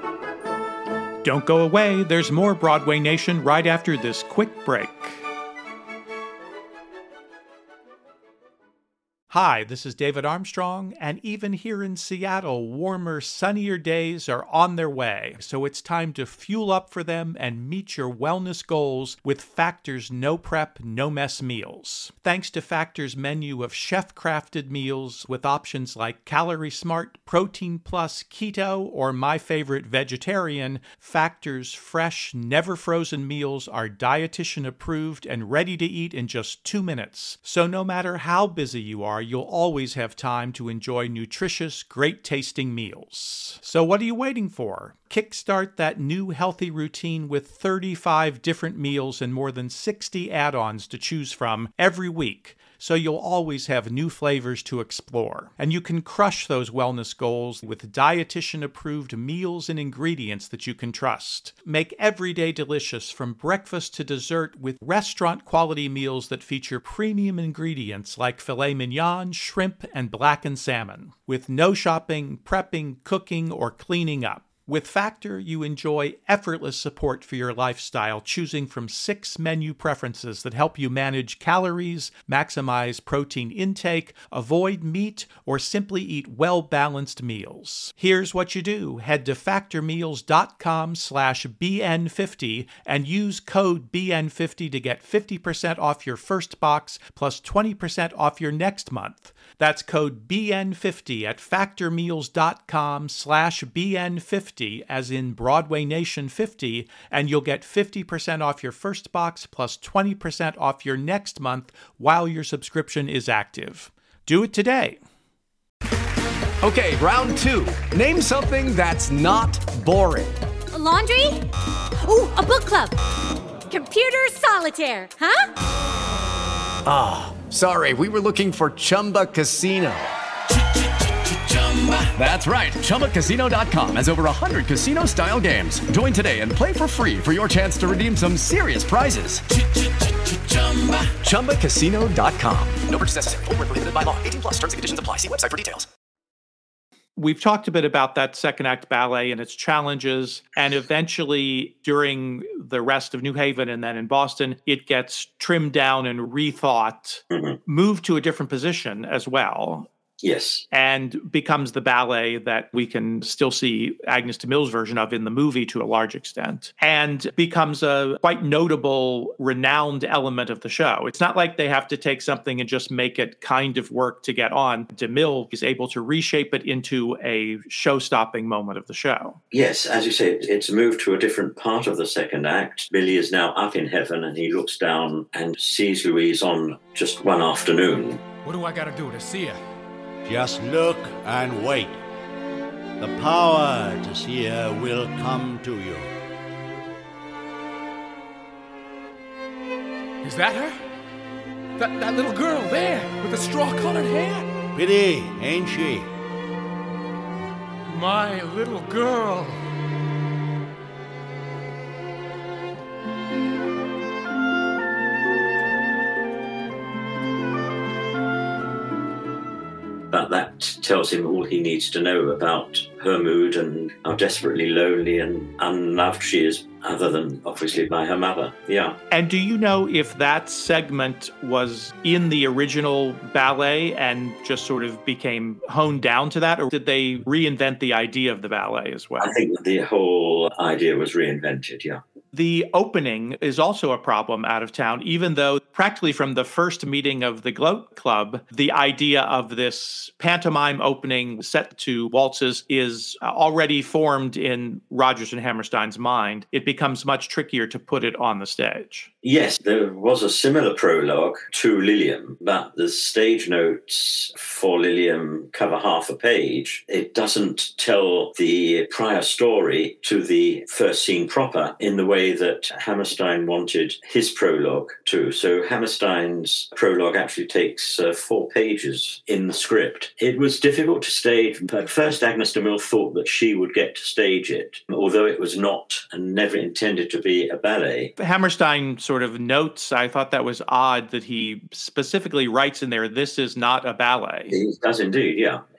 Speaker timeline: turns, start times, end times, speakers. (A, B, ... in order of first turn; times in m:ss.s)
0:01.2-0:05.2 A
0:09.3-1:55.0 A
1:56.6-2:00.4 B
2:00.7-2:01.4 C
2:02.0-2:02.9 C
2:03.7-2:05.4 C
2:06.8-2:10.1 B
2:11.5-2:25.9 B
2:27.2-2:39.9 A
2:37.3-2:37.6 D
2:40.2-2:40.6 D
2:40.7-2:59.4 A
2:59.5-3:08.2 D
3:08.4-3:09.6 E
3:10.2-3:12.0 F
3:13.0-3:16.1 F
3:20.2-3:20.8 E
3:21.8-3:24.5 E
3:24.7-3:26.1 F
3:27.9-3:29.6 E
3:40.1-3:49.0 D
3:49.1-3:59.3 A
3:59.2-4:02.0 D
4:02.3-4:19.1 A
4:19.2-4:48.1 D
4:48.2-4:54.6 A
4:54.5-4:55.6 D